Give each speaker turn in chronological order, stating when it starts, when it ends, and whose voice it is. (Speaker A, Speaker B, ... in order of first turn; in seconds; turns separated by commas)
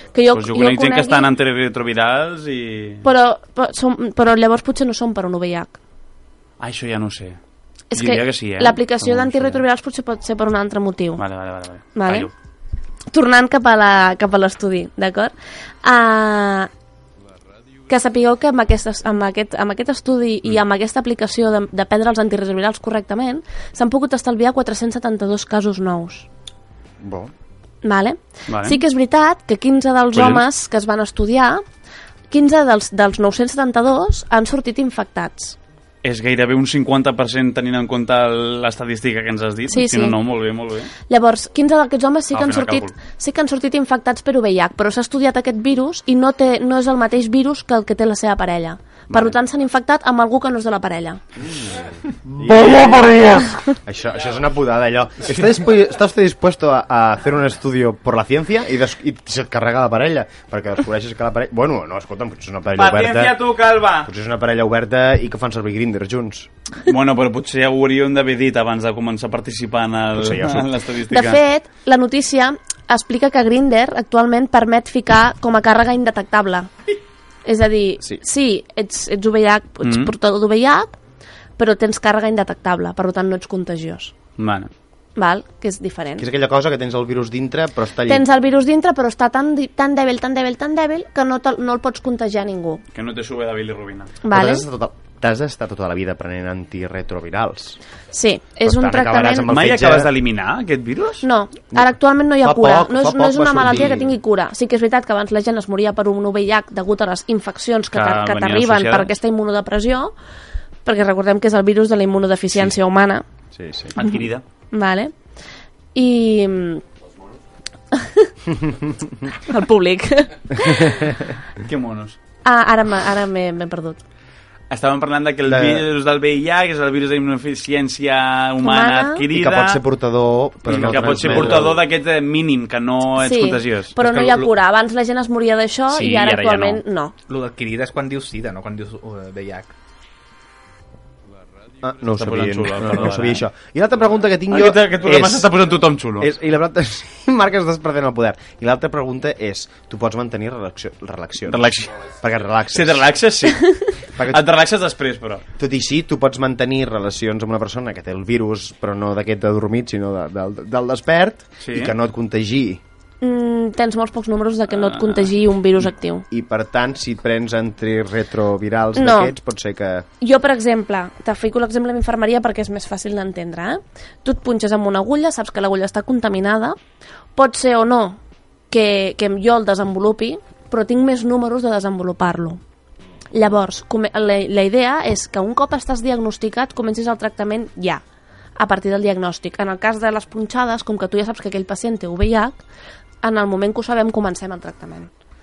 Speaker A: 0.1-1.3, Speaker B: 0.3-3.0, Speaker A: 3.0-5.8, Speaker B: 6.6-7.4, Speaker A: 7.9-11.2, Speaker B: 7.9-9.5, Speaker C: 9.2-9.5, Speaker B: 11.2-12.3, Speaker A: 11.9-12.3, Speaker A: 13.1-16.7, Speaker A: 17.9-26.3, Speaker C: 27.0-27.3, Speaker A: 27.8-31.6, Speaker B: 28.5-28.8, Speaker B: 30.1-30.4, Speaker A: 32.3-35.6, Speaker B: 36.0-40.9, Speaker A: 39.7-40.2, Speaker A: 41.1-51.2, Speaker B: 42.3-42.9, Speaker C: 51.4-63.4, Speaker B: 62.8-64.1, Speaker C: 64.0-66.5, Speaker B: 66.8-71.4, Speaker C: 70.1-70.7, Speaker A: 71.1-76.7, Speaker A: 77.4-80.9, Speaker B: 79.8-80.1, Speaker A: 81.6-84.1, Speaker B: 84.4-84.7, Speaker A: 85.2-86.3, Speaker C: 86.2-88.2, Speaker A: 88.0-92.8, Speaker B: 92.9-94.1, Speaker A: 94.2-94.7, Speaker C: 94.3-97.8, Speaker A: 98.1-99.5, Speaker C: 98.6-100.1, Speaker B: 99.5-101.2, Speaker A: 101.2-110.1, Speaker C: 102.4-104.1, Speaker B: 107.9-109.1, Speaker A: 110.8-113.2, Speaker C: 113.5-113.9, Speaker B: 113.9-114.4, Speaker A: 114.7-115.1, Speaker A: 115.9-116.8, Speaker A: 117.9-118.3, Speaker C: 118.5-119.3, Speaker A: 119.4-121.1, Speaker C: 120.6-121.3, Speaker B: 121.6-122.2, Speaker A: 122.4-124.0, Speaker B: 124.7-129.8, Speaker C: 125.5-125.8, Speaker A: 128.6-129.2, Speaker C: 129.3-131.8, Speaker B: 130.7-133.9, Speaker D: 131.0-131.4, Speaker A: 133.2-137.1, Speaker D: 134.0-134.5, Speaker B: 135.9-136.8, Speaker D: 137.3-139.7, Speaker C: 141.8-145.5, Speaker B: 142.2-143.4, Speaker B: 144.5-146.3, Speaker C: 146.2-153.1, Speaker B: 151.5-151.9, Speaker B: 152.7-155.4, Speaker C: 154.2-154.5, Speaker C: 155.6-162.8, Speaker B: 161.6-161.9, Speaker A: 163.2-166.2, Speaker B: 164.7-165.3, Speaker C: 166.3-170.1, Speaker A: 168.9-169.3, Speaker A: 170.2-176.8, Speaker A: 177.3-178.2, Speaker A: 178.7-182.6, Speaker A: 183.3-188.0, Speaker A: 188.6-192.6, Speaker A: 193.2-195.1